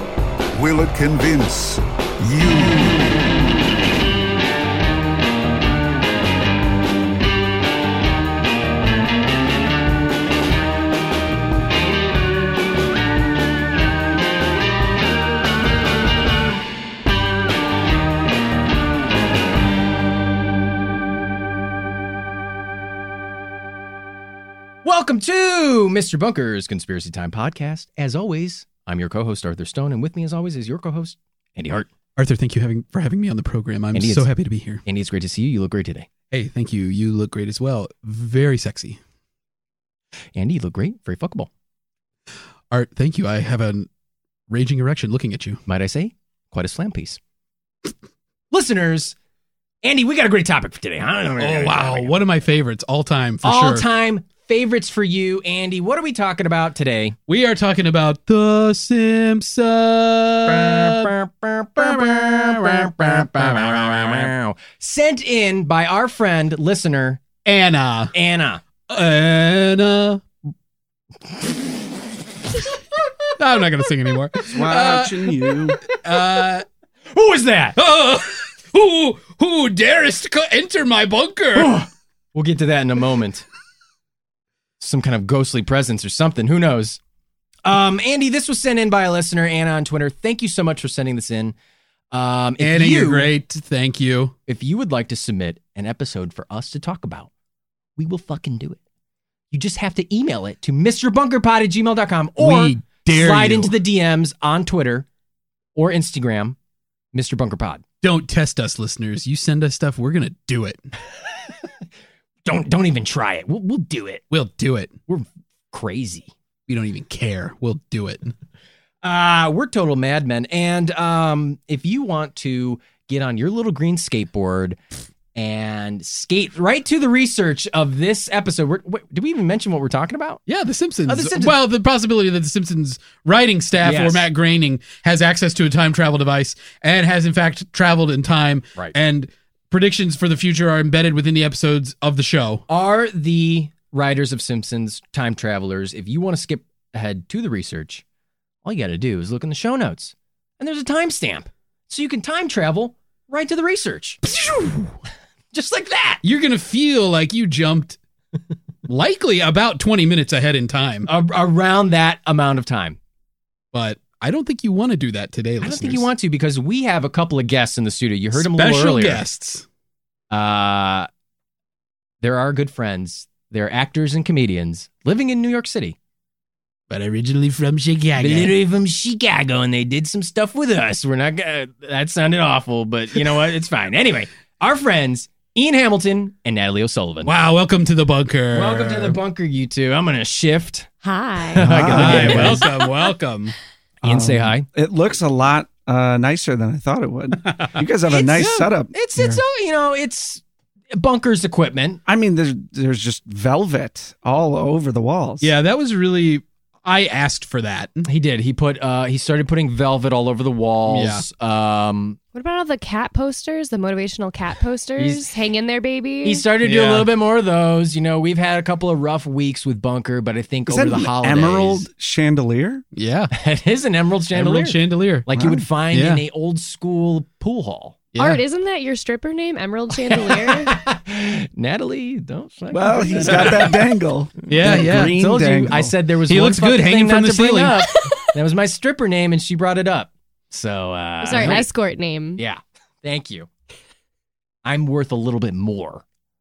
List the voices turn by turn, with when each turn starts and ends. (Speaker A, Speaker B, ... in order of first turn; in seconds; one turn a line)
Speaker A: 0.5-3.1
Speaker B: 24.8-31.9
Speaker C: 32.2-34.8
Speaker B: 34.0-34.3
Speaker B: 34.9-36.1
Speaker C: 36.3-39.0
Speaker B: 40.4-41.5
Speaker C: 42.7-43.9
Speaker C: 44.5-45.6
Speaker B: 45.7-47.2
Speaker B: 48.5-49.1
Speaker B: 49.8-52.2
Speaker C: 51.4-53.9
Speaker B: 53.4-57.2
Speaker C: 57.3-61.1
Speaker B: 60.5-67.4
Speaker C: 61.8-64.3
Speaker C: 67.4-68.1
Speaker B: 68.2-68.6
Speaker C: 68.9-70.2
Speaker C: 73.4-76.7
Speaker D: 74.5-75.8
Speaker B: 77.1-77.8
Speaker C: 77.8-81.8
Speaker B: 81.5-83.5
Speaker B: 84.8-87.0
Speaker B: 87.7-91.5
Speaker B: 92.1-93.3
Speaker C: 92.6-94.3
Speaker B: 94.5-97.3
Speaker B: 98.0-98.8
Speaker B: 99.5-105.1
Speaker C: 102.4-103.8
Speaker B: 105.8-106.6
Speaker B: 107.1-107.8
Speaker C: 108.0-110.9
Speaker B: 112.5-114.2
Speaker C: 114.3-114.9
Speaker B: 115.1-116.3
Speaker C: 116.7-118.3
Speaker B: 119.0-124.8
Speaker B: 125.3-130.4
Speaker C: 130.5-142.6
Speaker B: 131.1-131.6
Speaker B: 133.8-134.3
Speaker B: 142.7-148.0
Speaker B: 148.7-154.2
Speaker B: 155.5-156.2
Speaker C: 156.2-158.0
Speaker C: 158.9-161.1
Speaker B: 161.1-163.0
Speaker C: 163.7-166.1
Speaker B: 165.6-169.2
Speaker C: 168.3-169.7
Speaker B: 170.3-171.1
Speaker B: 172.2-176.0
Speaker C: 176.9-178.6
Speaker B: 178.2-187.3
Speaker C: 187.2-189.2
Speaker B: 188.5-190.9
Speaker E: 191.0-191.6
Speaker B: 191.5-192.7
Speaker D: 191.6-192.7
Speaker C: 191.7-193.6
Speaker B: 194.0-194.7
Speaker D: 194.0-199.4
Speaker B: 198.1-202.0
Speaker D: 202.1-205.5
Speaker C: 205.4-208.1
Speaker B: 208.1-212.2
Speaker C: 210.9-211.3
Speaker E: 212.3-216.4
Speaker B: 215.0-215.2
Speaker B: 216.2-221.9
Speaker C: 216.6-217.1
Speaker D: 220.7-222.8
Speaker C: 222.9-223.3
Speaker B: 223.3-228.1
Speaker C: 224.3-225.3
Speaker D: 225.3-225.7
Speaker C: 225.9-226.2
Speaker C: 228.2-228.4
Speaker E: 228.2-230.8
Speaker B: 230.0-233.7
Speaker D: 232.7-235.9
Speaker C: 234.5-235.2
Speaker B: 234.5-241.7
Speaker C: 236.3-237.8
Speaker E: 241.2-242.4
Speaker B: 242.4-243.5
Speaker B: 244.7-246.0